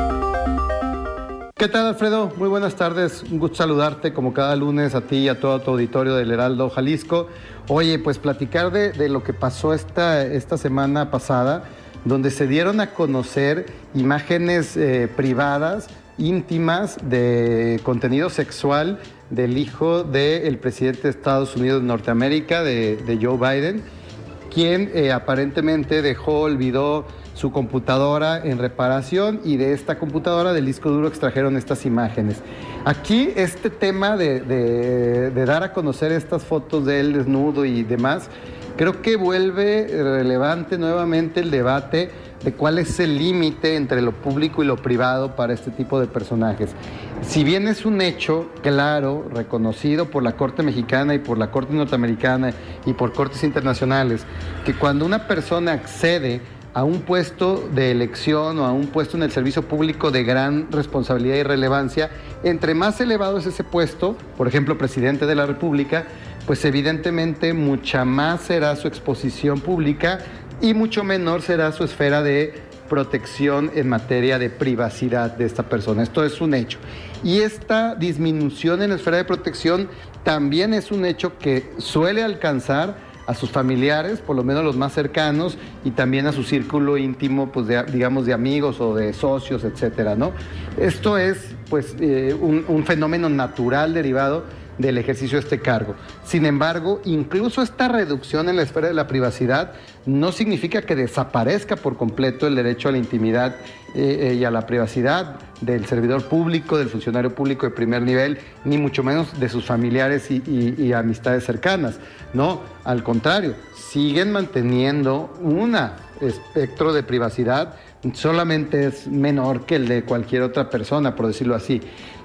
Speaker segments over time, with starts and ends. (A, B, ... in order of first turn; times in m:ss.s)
0:01.6-0:23.8 A
0:24.5-2:01.8 A